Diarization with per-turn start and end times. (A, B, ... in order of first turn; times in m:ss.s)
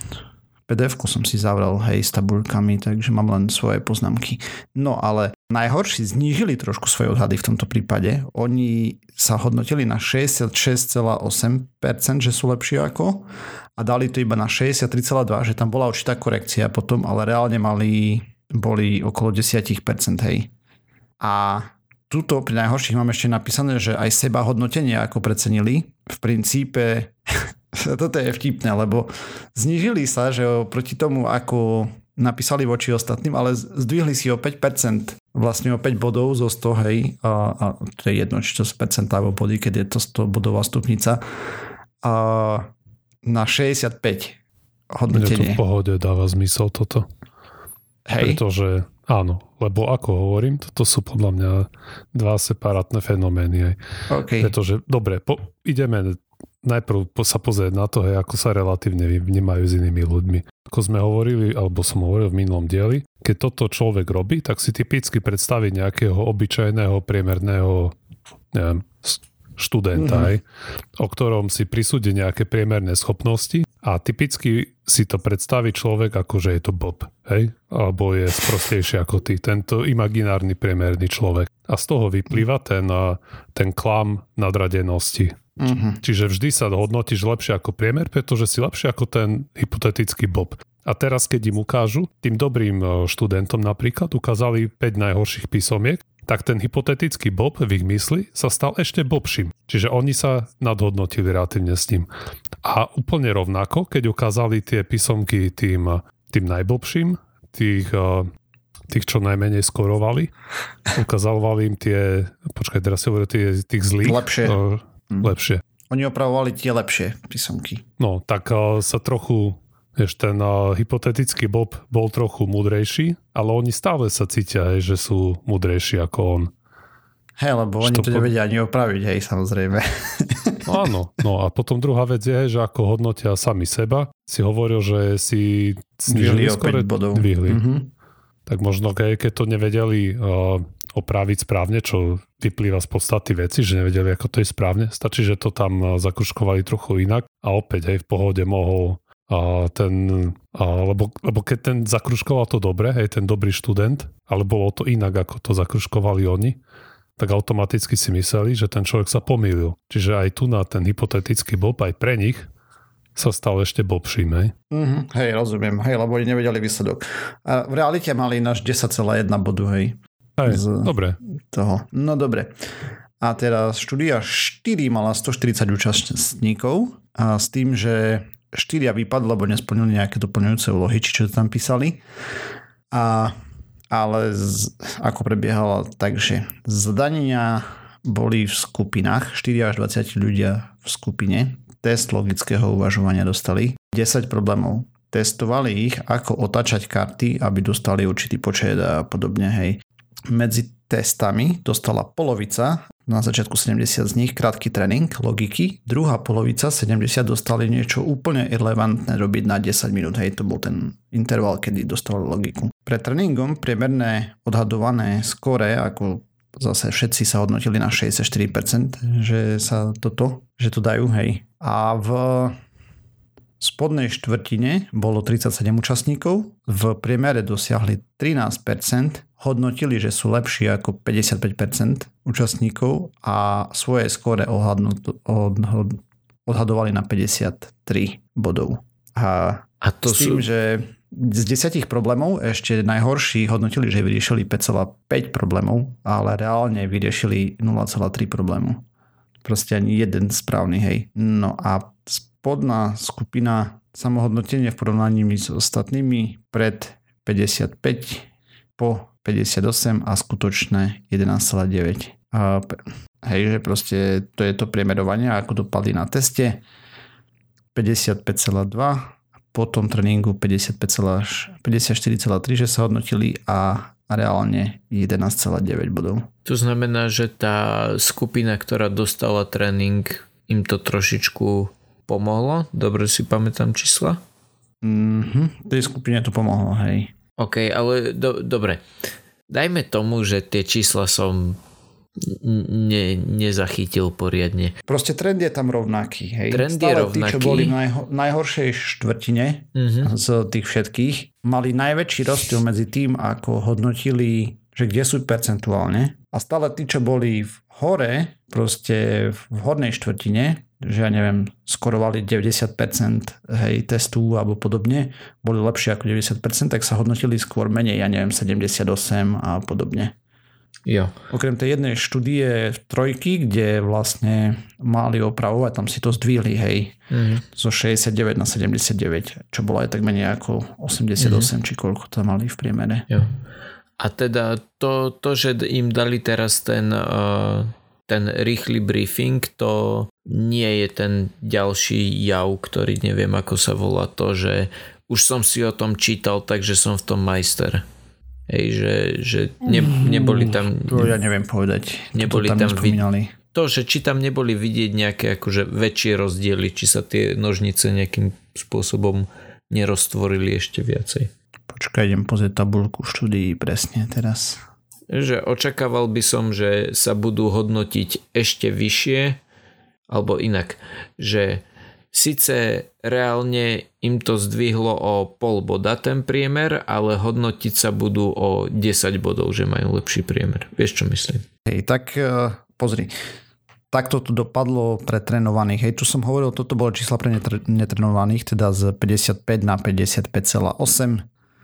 0:00.7-0:20.5 A
0:21.2-0:41.2 A
0:42.0-0:42.7 A
0:43.2-0:44.4 A
0:44.9-0:45.6 A
0:45.1-0:47.1 B
0:48.1-0:48.4 A
0:48.2-0:53.8 B
0:54.1-0:54.5 A
0:54.4-1:08.0 B
1:08.5-1:10.4 B
1:10.0-1:10.4 A
1:11.0-1:42.1 B
1:25.6-1:26.0 A
1:42.6-1:48.3 B
1:48.9-1:50.3 B
1:50.9-1:55.6 B
1:54.0-1:54.6 A
1:55.9-1:57.8 A
1:58.0-2:06.5 B
2:07.4-2:10.8 A
2:07.8-2:08.3 B
2:10.6-2:17.6 B
2:16.1-2:17.9 A
2:18.5-2:36.6 B
2:37.2-2:42.5 B
2:43.2-2:44.5 B
2:44.7-2:50.9 A
2:50.4-2:51.2 B
2:51.5-2:52.6 A
2:53.2-3:02.0 A
3:02.9-3:03.3 A
3:03.9-3:42.6 A
3:43.6-4:08.8 A
3:59.8-4:00.4 C
4:09.4-4:26.6 A
4:27.8-4:36.3 A
4:36.4-4:44.2 C
4:44.8-4:47.1 A
4:47.4-4:48.8 C
4:49.5-4:51.6 C
4:52.2-4:54.8 C
4:54.9-5:20.1 A
4:56.5-4:57.8 C
4:59.8-5:00.1 C
5:20.9-5:21.1 C
5:21.3-5:27.0 A
5:27.1-5:27.4 C
5:27.5-5:33.1 A
5:31.2-5:31.5 C
5:33.1-5:33.4 C
5:34.0-5:47.9 C
5:48.5-5:51.2 C
5:49.6-5:53.3 A
5:52.1-5:53.0 C
5:53.5-6:01.3 C
6:01.7-6:04.6 A
6:05.1-6:09.4 C
6:10.1-6:21.4 C
6:21.7-6:23.1 A
6:23.9-6:31.3 A